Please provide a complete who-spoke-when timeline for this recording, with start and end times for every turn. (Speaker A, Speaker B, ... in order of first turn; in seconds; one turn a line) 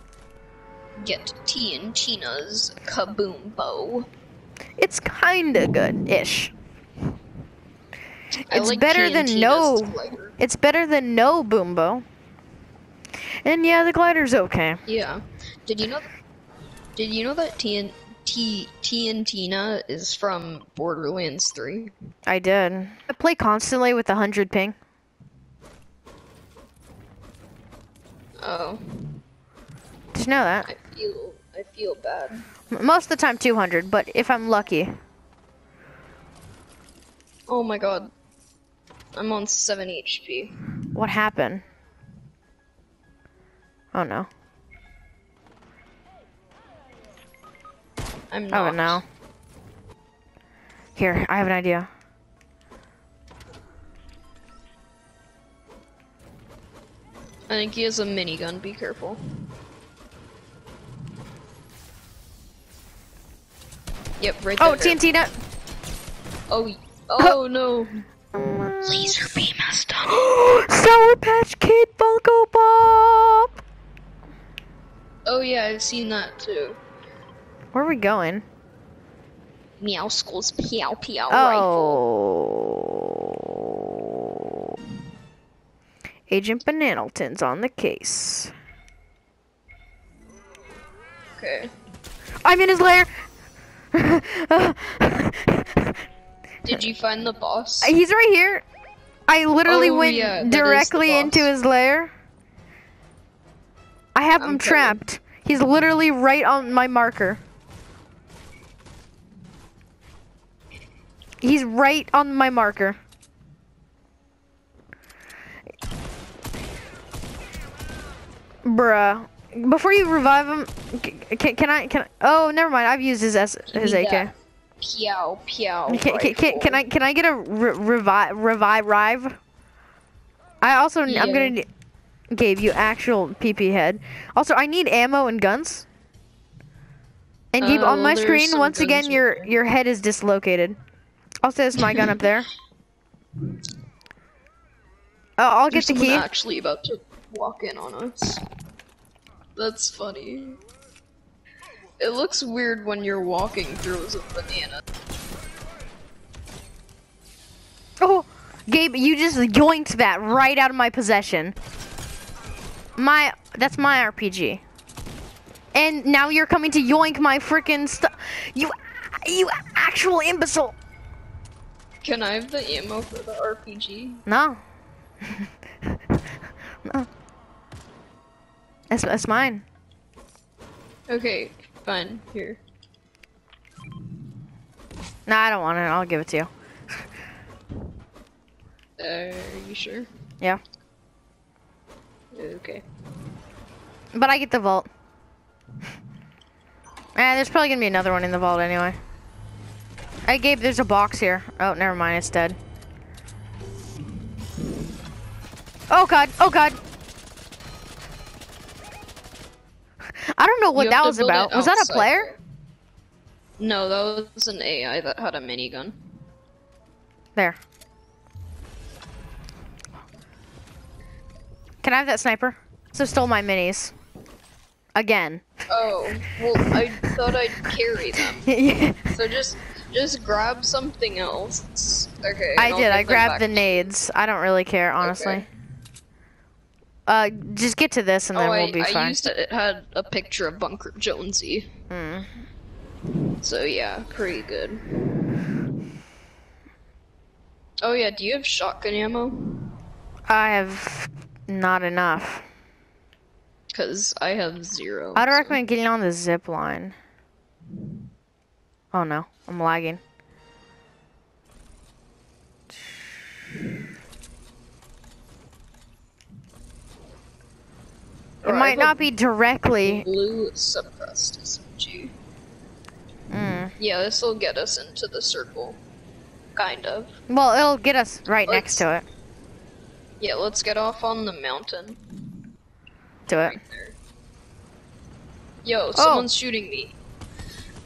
Speaker A: 1.0-4.1
Speaker B: 4.8-6.5
Speaker A: 8.5-10.3
Speaker B: 8.5-12.0
Speaker B: 13.4-14.8
Speaker A: 14.8-16.1
Speaker A: 17.0-21.9
Speaker B: 22.3-24.7
Speaker A: 28.4-29.2
Speaker B: 30.1-30.7
Speaker A: 30.7-32.4
Speaker B: 32.7-35.0
Speaker A: 37.5-38.1
Speaker A: 39.1-40.5
Speaker B: 40.9-41.6
Speaker B: 43.9-44.3
Speaker A: 48.3-49.0
Speaker B: 48.5-49.0
Speaker B: 51.0-51.9
Speaker A: 57.5-59.2
Speaker A: 64.2-65.0
Speaker B: 64.6-65.3
Speaker A: 66.5-68.0
Speaker B: 68.3-69.1
Speaker A: 68.8-70.2
Speaker B: 70.1-73.6
Speaker A: 75.2-76.8
Speaker B: 77.7-78.4
Speaker A: 79.8-82.0
Speaker B: 81.3-84.5
Speaker B: 86.3-88.5
Speaker A: 91.3-91.7
Speaker B: 92.4-93.1
Speaker B: 93.9-96.0
Speaker A: 96.6-97.9
Speaker B: 97.8-98.6
Speaker B: 99.3-102.1
Speaker A: 99.6-101.5
Speaker B: 104.1-107.4
Speaker A: 104.4-105.0
Speaker B: 111.4-113.0
Speaker B: 118.6-124.3
Speaker A: 123.7-126.8
Speaker B: 125.9-129.4
Speaker B: 130.6-131.7
Speaker A: 131.1-131.6
Speaker B: 132.3-135.9
Speaker B: 137.5-140.8
Speaker A: 137.6-139.5
Speaker B: 141.4-142.5
Speaker A: 141.8-142.0
Speaker B: 145.4-146.2
Speaker A: 145.7-148.4
Speaker A: 149.6-150.6
Speaker A: 152.0-154.8
Speaker B: 158.0-161.6
Speaker B: 163.0-164.6
Speaker B: 165.7-170.8
Speaker A: 172.0-174.2
Speaker B: 174.3-174.6
Speaker B: 175.2-176.1
Speaker B: 178.9-179.6
Speaker A: 181.1-182.6
Speaker B: 185.3-186.5
Speaker A: 189.0-190.1
Speaker A: 192.3-192.8
Speaker B: 194.1-194.9
Speaker B: 197.1-199.0
Speaker B: 200.2-202.6
Speaker B: 205.9-206.8
Speaker B: 210.3-212.3
Speaker A: 210.7-212.3
Speaker A: 213.6-216.0
Speaker B: 221.8-223.9
Speaker B: 224.9-225.4
Speaker A: 225.7-228.5
Speaker B: 228.4-229.1
Speaker A: 229.1-233.9
Speaker B: 232.6-235.5
Speaker A: 235.0-235.4
Speaker B: 237.1-239.2
Speaker A: 238.3-241.7
Speaker B: 241.9-242.3
Speaker A: 243.4-244.8
Speaker A: 247.8-249.6
Speaker B: 250.3-252.4
Speaker A: 253.7-255.6
Speaker B: 255.1-256.9
Speaker B: 258.9-260.0
Speaker A: 268.4-269.0
Speaker B: 268.4-270.1
Speaker A: 269.8-272.1
Speaker B: 273.3-273.7
Speaker A: 273.8-275.8
Speaker A: 276.5-277.1
Speaker B: 277.3-279.0
Speaker A: 278.5-278.9
Speaker A: 280.2-282.2
Speaker B: 283.3-283.6
Speaker A: 283.3-284.0
Speaker A: 285.6-286.9
Speaker B: 285.9-286.3